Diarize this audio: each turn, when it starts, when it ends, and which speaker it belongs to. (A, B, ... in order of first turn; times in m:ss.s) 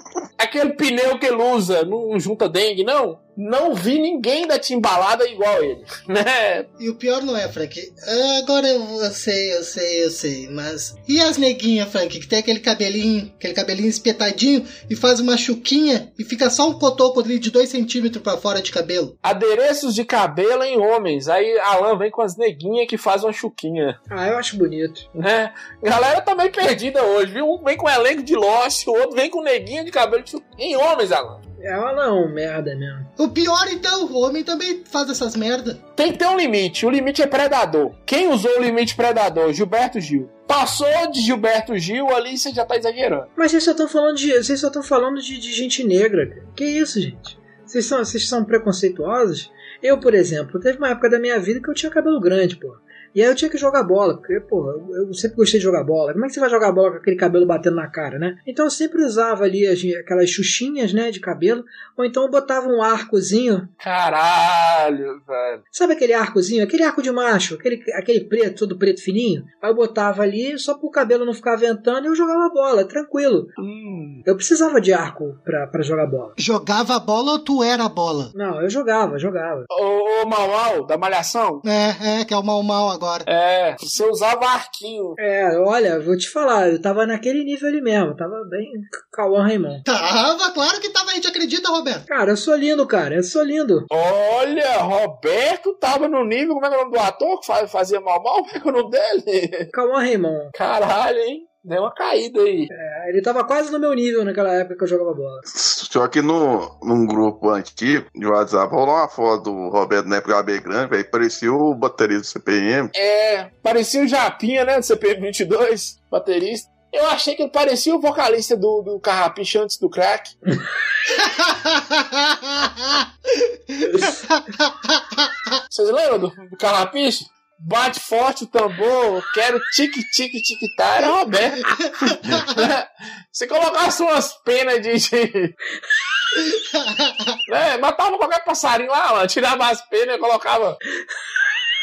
0:00.4-0:06.7 A
0:06.8-0:19.1 B
0:19.2-0:24.0 A
0:24.1-0:25.0 C
0:25.2-0:31.4 A
0:31.6-0:33.1 C
0:33.2-0:35.8 B
0:36.0-0:43.3 A
0:43.4-1:03.7 C
1:03.8-1:05.6 A
1:05.7-1:13.5 C
1:13.6-1:14.2 A
1:14.2-1:16.3 C
1:16.4-1:18.3 B
1:18.3-1:19.7 C
1:19.7-1:21.6 A
1:21.6-1:23.3 B
1:23.3-1:25.2 A
1:25.2-1:29.8 C
1:29.8-1:32.0 B
1:32.1-1:33.9 C
1:33.9-1:39.7 A
1:39.7-1:40.5 C
1:40.5-1:42.7 A
1:42.7-1:45.4 C
1:45.5-1:52.9 D
1:52.9-2:00.3 A
2:01.2-2:05.3 B
2:05.7-2:15.5 A
2:12.1-2:12.5 B
2:16.3-2:17.4 B
2:17.5-2:20.8 A